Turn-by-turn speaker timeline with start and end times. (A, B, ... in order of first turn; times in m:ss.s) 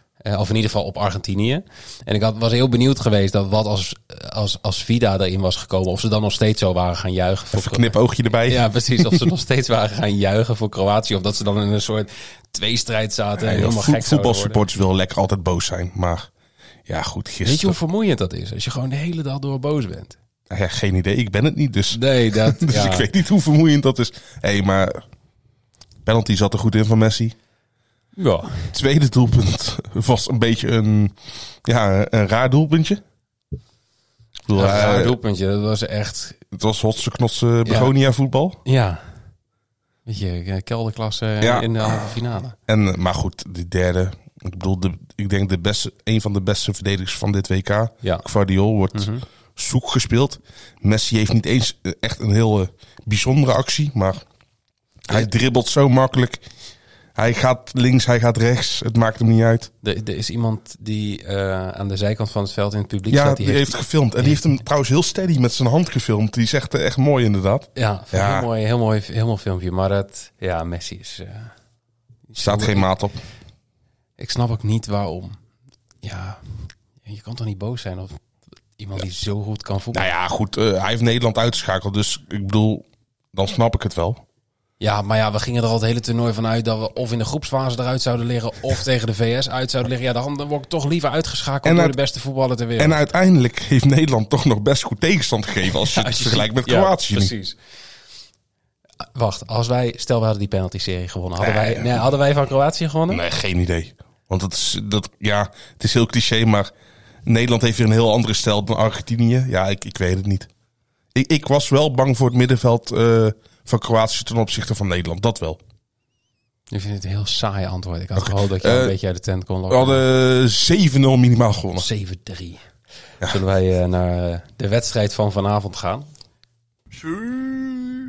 0:00.2-0:07.9 A
0:07.5-0:09.3 B
0:08.4-0:14.6 A
0:13.4-0:16.3 B
0:16.9-0:17.8 B
0:17.4-0:20.2 A
0:20.5-0:25.0 B
0:21.9-0:23.1 A
0:26.0-0:27.3 B
0:28.2-0:28.7 A
0:28.7-0:33.0 B
0:34.5-0:35.2 B
0:34.5-0:36.4 A
0:36.5-0:38.6 B
0:37.6-0:37.9 A
0:38.6-0:39.0 A
0:40.0-0:42.6 A
0:41.4-0:54.2 B
0:48.9-0:49.2 A
0:55.1-0:56.4 B
0:57.2-0:59.7 B
0:59.8-1:04.4 A
1:03.1-1:08.5 B
1:07.7-1:11.5 A
1:12.3-1:12.9 A
1:12.4-1:13.2 B
1:14.2-1:15.4 A
1:16.0-1:18.2 A
1:18.8-1:20.1 A
1:19.9-1:24.2 B
1:24.8-1:33.0 A
1:31.6-1:32.0 B
1:32.8-1:37.3 B
1:35.7-1:37.6 A
1:39.1-1:43.2 A
1:41.4-1:42.0 B
1:43.1-1:46.7 B
1:47.2-1:50.5 B
1:51.1-1:55.6 B
1:56.7-2:00.0 A
1:58.2-1:59.0 B
1:59.7-2:01.9 B
2:01.7-2:02.6 A
2:03.2-2:06.0 A